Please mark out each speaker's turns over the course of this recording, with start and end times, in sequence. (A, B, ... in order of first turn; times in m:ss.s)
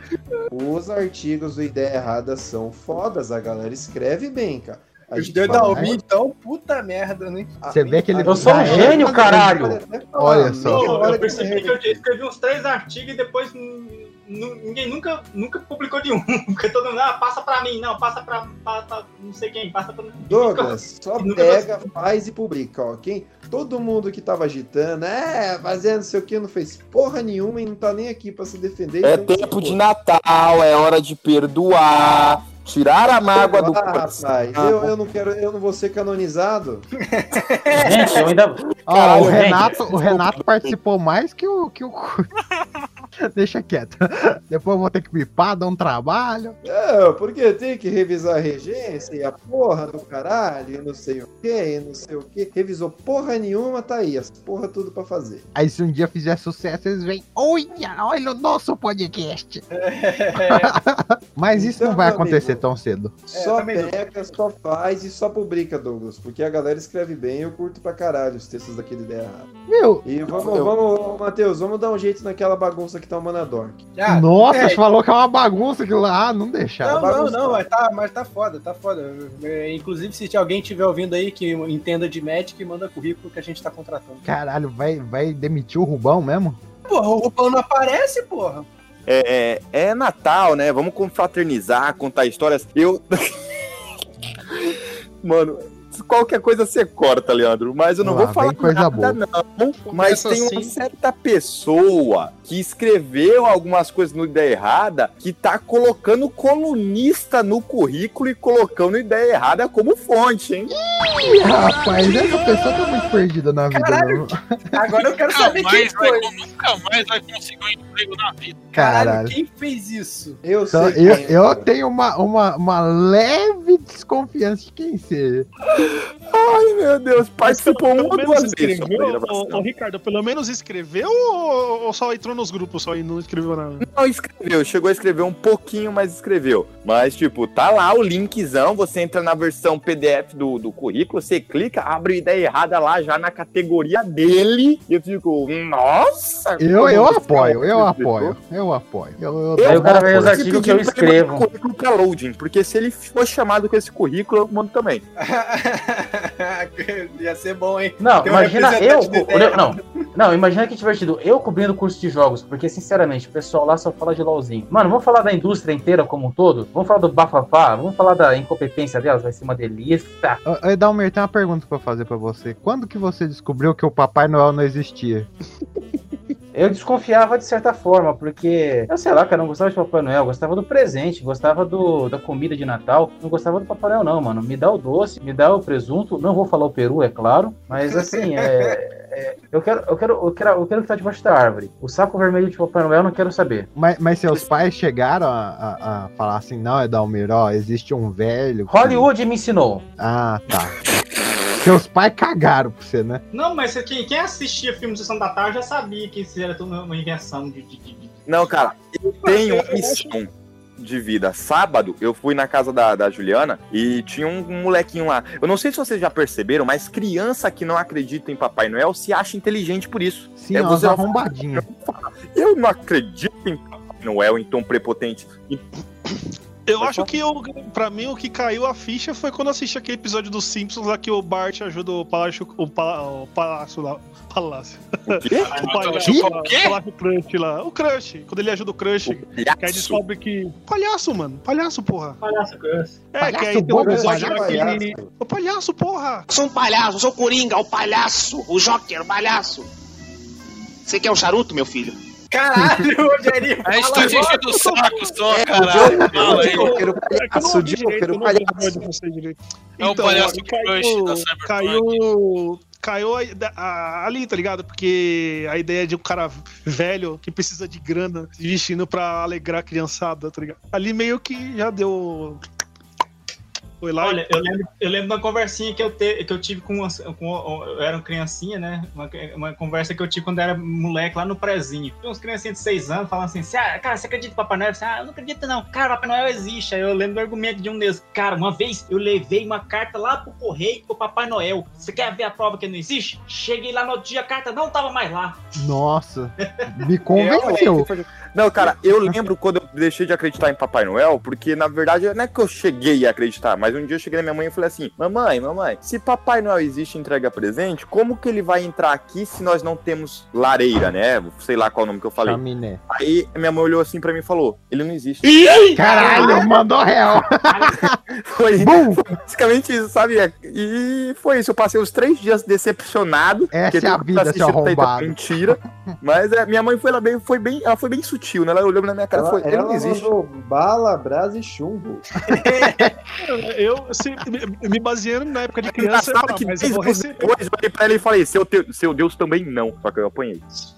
0:00.5-0:06.0 A
0:05.1-0:07.5 B
0:05.5-0:06.0 C
0:07.6-0:12.0 A
0:07.7-0:09.2 C
0:08.2-0:09.8 D
0:10.2-0:11.0 C
0:10.6-0:21.8 E
0:10.8-0:11.6 B
0:20.2-0:29.8 A
0:29.0-0:34.9 F
0:33.3-0:36.9 A
0:37.1-0:38.2 B
0:37.8-0:38.6 D
0:38.7-0:40.7 F
0:38.9-0:42.3 C
0:39.1-0:39.7 D
0:39.2-0:39.7 B
0:43.2-0:46.6 C
0:46.6-0:55.5 A
0:55.6-0:59.6 C
0:59.7-1:00.7 B
1:00.4-1:03.2 C
1:01.5-1:02.6 A
1:03.3-1:09.5 A
1:03.3-1:04.0 B
1:09.7-1:10.0 C
1:10.0-1:13.8 A
1:10.4-1:10.7 F
1:14.0-1:14.8 B
1:14.1-1:17.1 C
1:16.8-1:24.2 B
1:16.9-1:17.6 A
1:24.2-1:26.6 C
1:26.9-1:28.6 B
1:29.1-1:33.3 F
1:34.6-1:50.7 F
1:38.0-1:39.2 C
1:39.9-1:40.7 B
1:50.9-1:54.4 C
1:53.7-1:56.3 B
1:55.3-1:58.6 G
1:58.7-1:59.4 C
1:58.7-2:00.4 B
2:00.4-2:01.7 A
2:00.7-2:05.5 C
2:05.7-2:09.6 F
2:07.4-2:13.8 H
2:13.8-2:28.4 F
2:26.6-2:30.4 C
2:29.6-2:35.0 F
2:29.6-2:31.5 D
2:35.2-2:39.8 B
2:38.0-2:50.4 D
2:50.4-2:55.3 C
2:56.5-3:13.7 D
3:13.8-3:19.1 C
3:18.7-3:19.9 D
3:20.0-3:20.9 C
3:21.6-3:23.2 C
3:23.3-3:28.2 E
3:28.3-3:45.6 F
3:29.2-3:30.0 H
3:40.4-3:41.6 C
3:46.6-4:02.2 H
3:46.8-3:47.1 F
3:55.1-3:55.6 F
3:55.4-3:56.2 E
3:55.4-3:56.8 G
3:56.0-3:56.3 C
3:59.0-4:00.0 F
4:02.2-4:03.0 E
4:03.1-4:06.2 H
4:03.2-4:04.6 C
4:03.8-4:05.1 A
4:06.3-4:09.7 I
4:10.9-4:12.0 I
4:12.3-4:14.8 B
4:13.6-4:16.8 G
4:14.5-4:14.8 H
4:15.3-4:16.4 F
4:15.6-4:18.8 A
4:15.8-4:32.4 H
4:19.8-4:22.1 G
4:33.8-4:34.4 H
4:34.0-4:55.5 E
4:55.6-4:57.9 C
4:56.4-4:56.7 E
4:57.1-4:57.9 B
4:57.2-5:16.4 F
5:12.2-5:12.8 C
5:15.4-5:16.5 E
5:15.8-5:17.9 C
5:17.5-5:17.8 E
5:18.3-5:30.1 F
5:18.6-5:19.0 C
5:23.5-5:25.9 C
5:29.1-5:32.0 A
5:32.3-5:32.9 B
5:33.2-5:37.3 H
5:35.7-5:40.4 F